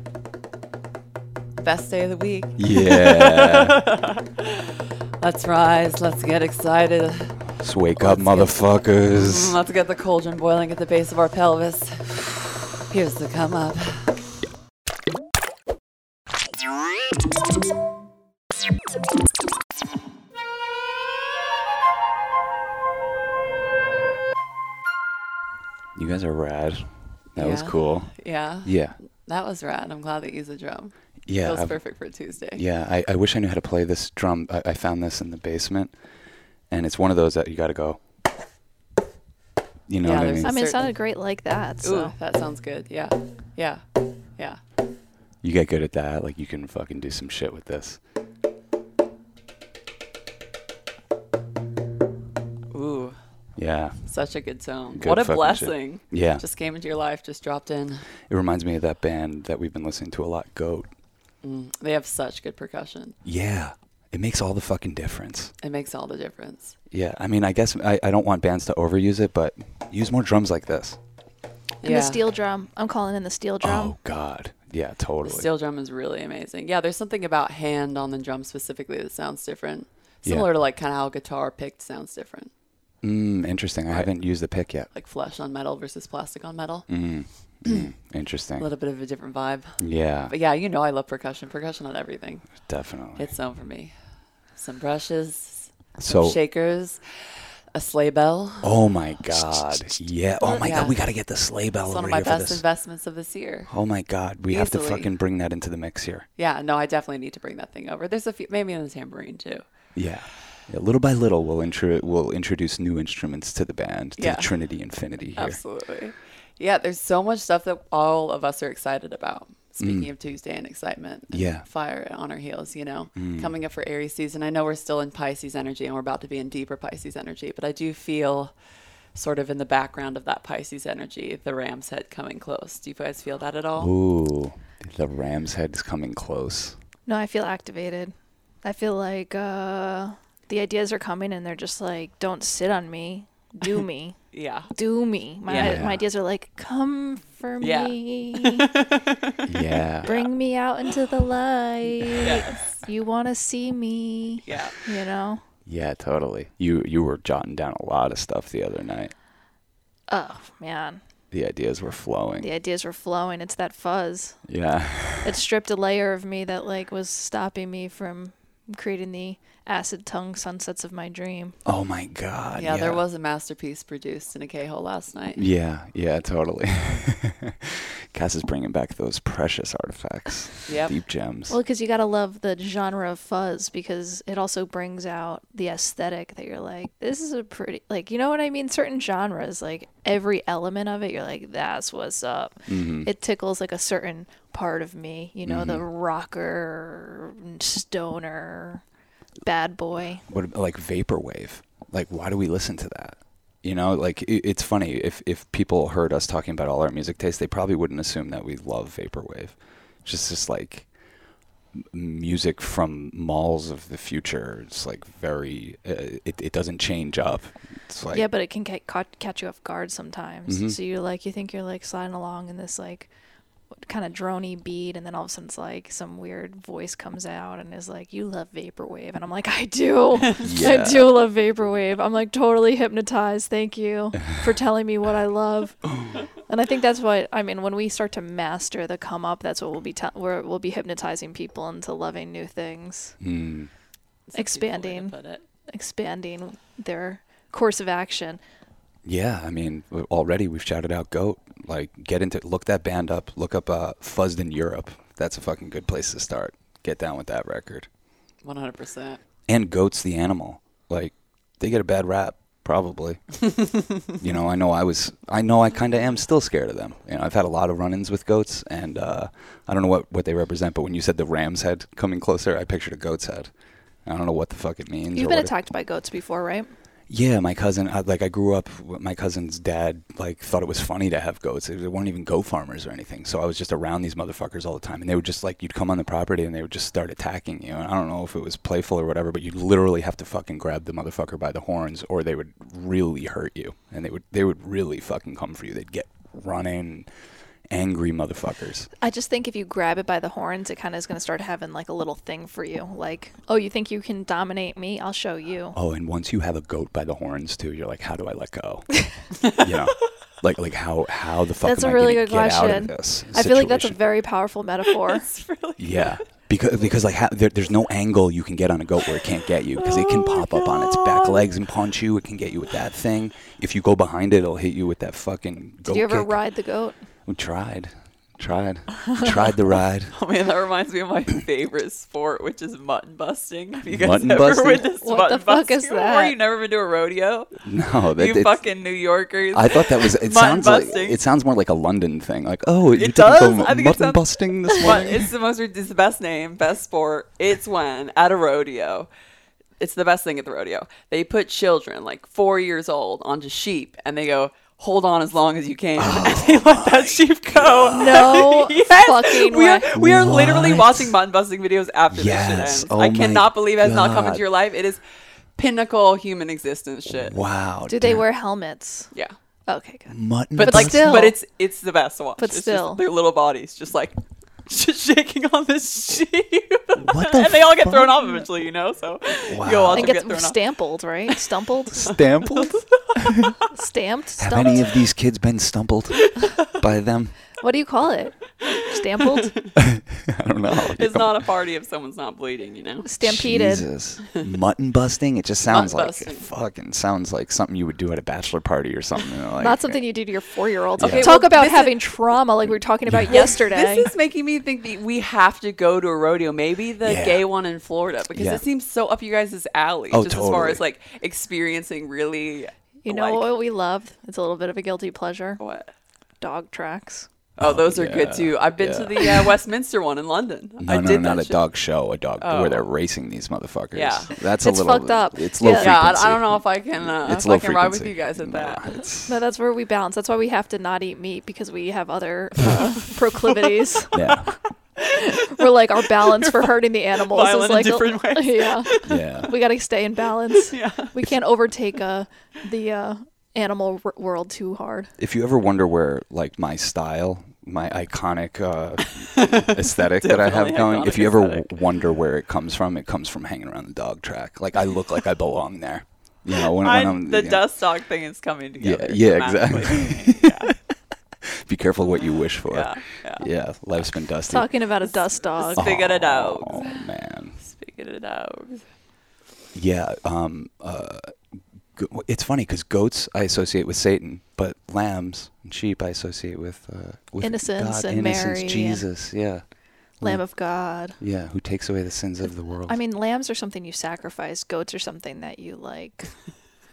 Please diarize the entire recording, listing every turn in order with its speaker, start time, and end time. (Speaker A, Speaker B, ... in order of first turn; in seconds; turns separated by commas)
Speaker A: 1.6-4.4, Speaker B: 2.6-3.8, Speaker A: 5.2-7.4, Speaker B: 7.6-9.6, Speaker A: 8.0-14.3, Speaker B: 25.9-29.0, Speaker A: 27.4-32.6, Speaker B: 31.3-36.0, Speaker B: 36.7-38.0, Speaker B: 39.9-40.6, Speaker A: 40.0-41.1, Speaker C: 40.4-42.2, Speaker A: 41.8-43.8, Speaker B: 45.4-48.0, Speaker A: 52.7-53.2, Speaker B: 53.6-54.1, Speaker A: 54.1-58.1, Speaker B: 54.9-56.4, Speaker B: 58.3-60.9, Speaker A: 61.4-63.2, Speaker B: 63.2-65.5, Speaker A: 65.6-66.8, Speaker B: 66.9-71.0, Speaker A: 71.8-72.2, Speaker C: 71.8-74.0, Speaker B: 73.6-75.5, Speaker A: 75.2-82.5, Speaker B: 83.0-84.9, Speaker A: 83.9-84.2, Speaker A: 84.9-87.8, Speaker B: 86.9-88.7, Speaker A: 88.6-93.9, Speaker B: 89.8-90.3, Speaker B: 92.6-93.3, Speaker A: 94.5-98.7, Speaker B: 96.0-96.4, Speaker B: 98.6-102.6, Speaker A: 100.4-101.0, Speaker A: 101.8-103.7, Speaker B: 103.7-106.3, Speaker A: 104.5-105.1, Speaker A: 106.4-109.6, Speaker B: 110.0-115.6, Speaker A: 114.2-114.5, Speaker A: 115.4-128.5, Speaker B: 119.8-120.1, Speaker B: 121.3-121.7, Speaker B: 123.2-123.5, Speaker A: 129.1-133.9, Speaker B: 133.8-136.8, Speaker C: 137.1-148.7, Speaker A: 144.3-144.7, Speaker A: 145.4-145.8, Speaker B: 145.5-146.1, Speaker A: 147.6-149.3, Speaker B: 149.5-150.1, Speaker A: 150.0-150.3, Speaker C: 150.0-155.4, Speaker A: 152.2-152.8, Speaker A: 154.4-154.8, Speaker B: 155.7-159.1, Speaker C: 160.1-161.0, Speaker B: 161.3-162.5, Speaker C: 162.4-164.6, Speaker B: 164.5-165.4, Speaker C: 165.2-171.6, Speaker B: 171.7-173.0, Speaker A: 172.6-175.4, Speaker B: 175.3-181.6, Speaker A: 180.7-181.0, Speaker C: 181.5-198.8, Speaker B: 192.7-193.1, Speaker B: 195.4-195.8, Speaker C: 199.4-200.2, Speaker B: 200.3-211.0, Speaker B: 211.8-218.3, Speaker C: 218.1-223.1, Speaker B: 220.5-220.8, Speaker C: 223.8-243.2, Speaker B: 230.4-231.2, Speaker B: 243.2-243.7, Speaker A: 244.3-245.4, Speaker C: 244.3-245.2, Speaker C: 245.7-248.4, Speaker B: 249.1-257.9, Speaker A: 258.4-259.2, Speaker B: 259.5-273.5, Speaker B: 274.1-275.5, Speaker C: 275.1-276.7, Speaker B: 277.1-297.1, Speaker B: 297.7-298.9, Speaker C: 299.0-305.8, Speaker B: 305.7-314.0, Speaker C: 311.6-315.3, Speaker A: 315.0-316.2, Speaker B: 315.8-326.6, Speaker A: 319.8-321.5, Speaker C: 325.9-327.0, Speaker B: 327.3-330.1, Speaker A: 330.1-337.6, Speaker B: 333.9-334.9, Speaker C: 335.0-336.4, Speaker B: 337.6-338.6, Speaker A: 338.1-341.2, Speaker B: 339.5-345.3, Speaker A: 342.9-349.1, Speaker A: 349.8-365.0, Speaker B: 356.0-358.4, Speaker C: 357.9-359.9, Speaker B: 359.9-361.2, Speaker B: 362.1-364.4, Speaker A: 365.6-367.4, Speaker B: 367.1-368.2, Speaker C: 367.9-369.1, Speaker C: 369.7-371.4, Speaker B: 370.1-371.2, Speaker A: 370.6-381.4, Speaker C: 372.4-373.1, Speaker B: 377.0-378.1, Speaker B: 379.5-380.1, Speaker C: 379.9-382.1, Speaker B: 381.9-383.3, Speaker C: 383.7-385.0, Speaker B: 384.4-387.5, Speaker C: 387.6-389.7, Speaker A: 389.2-389.6, Speaker B: 389.9-391.4, Speaker A: 390.8-393.1, Speaker C: 393.0-393.9, Speaker B: 393.2-400.3, Speaker A: 395.7-396.5, Speaker C: 399.6-404.1, Speaker B: 401.0-401.3, Speaker A: 401.0-402.4, Speaker A: 403.2-413.5, Speaker B: 407.0-407.5, Speaker B: 408.3-408.6, Speaker B: 410.1-410.8, Speaker C: 413.0-415.6, Speaker A: 415.6-415.9, Speaker C: 416.4-417.3, Speaker A: 417.6-421.7, Speaker B: 417.6-419.5, Speaker B: 420.8-429.4, Speaker A: 422.4-422.9, Speaker A: 423.9-424.3, Speaker C: 424.6-425.9, Speaker A: 425.6-429.0, Speaker C: 429.3-434.2, Speaker B: 434.1-434.5, Speaker C: 435.1-445.1, Speaker A: 436.2-439.2, Speaker B: 439.1-439.5, Speaker A: 440.7-441.2, Speaker B: 445.2-457.6, Speaker A: 449.4-451.8, Speaker A: 456.7-460.7, Speaker B: 458.8-460.5, Speaker B: 461.7-464.8, Speaker A: 462.7-464.1, Speaker C: 464.5-465.9, Speaker A: 465.1-468.9, Speaker B: 465.7-467.6, Speaker B: 469.7-471.4, Speaker B: 471.9-483.0, Speaker C: 477.4-479.1, Speaker C: 480.2-481.2, Speaker C: 482.9-486.4